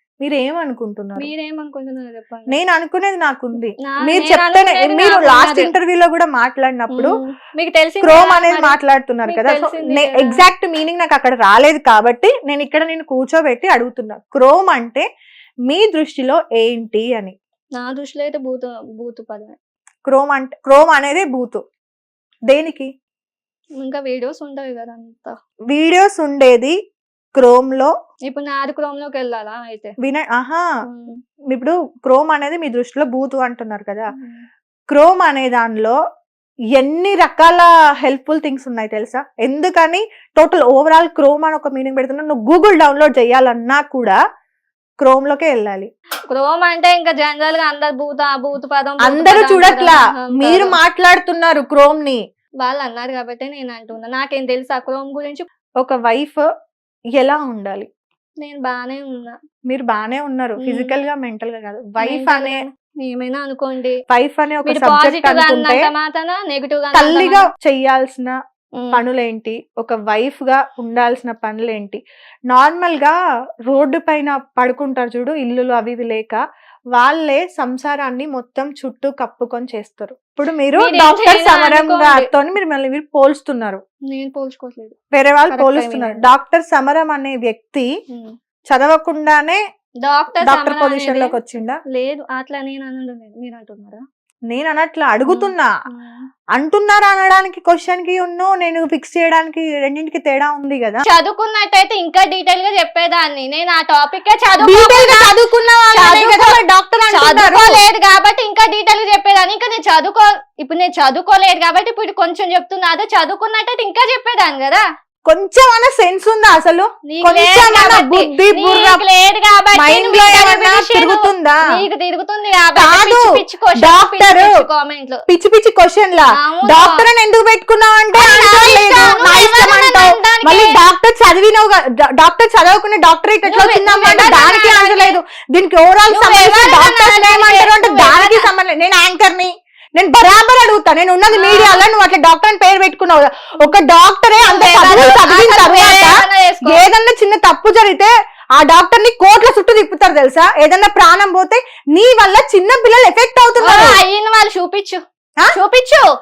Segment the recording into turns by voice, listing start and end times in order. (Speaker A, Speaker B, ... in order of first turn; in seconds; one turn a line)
Speaker A: 0.2-1.3
Speaker B: 1.2-2.5
Speaker A: 2.5-7.2
Speaker B: 3.8-5.7
Speaker B: 6.9-10.4
Speaker A: 8.0-15.1
Speaker A: 15.7-17.4
Speaker B: 17.8-19.6
Speaker A: 20.1-21.6
Speaker A: 22.5-22.9
Speaker B: 23.8-25.3
Speaker A: 25.7-26.8
Speaker A: 27.4-27.9
Speaker B: 28.3-29.9
Speaker A: 30.0-30.6
Speaker B: 30.9-31.2
Speaker A: 31.5-34.1
Speaker B: 34.1-34.4
Speaker A: 34.9-36.0
Speaker A: 36.7-44.2
Speaker A: 45.0-45.9
Speaker B: 46.3-50.8
Speaker A: 49.0-52.2
Speaker B: 52.6-55.5
Speaker A: 55.8-56.4
Speaker A: 57.1-57.9
Speaker B: 58.4-59.4
Speaker A: 59.7-62.6
Speaker B: 60.6-61.0
Speaker B: 62.0-64.0
Speaker A: 64.1-65.9
Speaker B: 64.7-67.5
Speaker A: 66.9-68.3
Speaker A: 68.9-73.2
Speaker A: 73.7-76.4
Speaker A: 76.9-83.8
Speaker B: 80.8-82.3
Speaker B: 84.1-85.0
Speaker A: 85.1-87.9
Speaker B: 85.5-86.3
Speaker A: 88.7-89.6
Speaker B: 90.0-91.4
Speaker A: 90.4-91.8
Speaker B: 91.9-94.0
Speaker A: 94.5-95.7
Speaker B: 95.3-96.2
Speaker A: 96.5-101.0
Speaker B: 101.1-105.3
Speaker A: 104.6-107.8
Speaker B: 105.9-106.6
Speaker B: 107.1-114.8
Speaker A: 115.3-119.0
Speaker B: 117.1-125.2
Speaker A: 119.8-121.6
Speaker A: 122.8-124.6
Speaker A: 125.3-154.0
Speaker B: 126.3-127.0
Speaker B: 128.1-130.8
Speaker B: 133.5-135.2
Speaker B: 136.1-138.4
Speaker B: 141.3-141.8
Speaker B: 144.5-146.8
Speaker B: 153.6-155.0
Speaker B: 155.5-156.1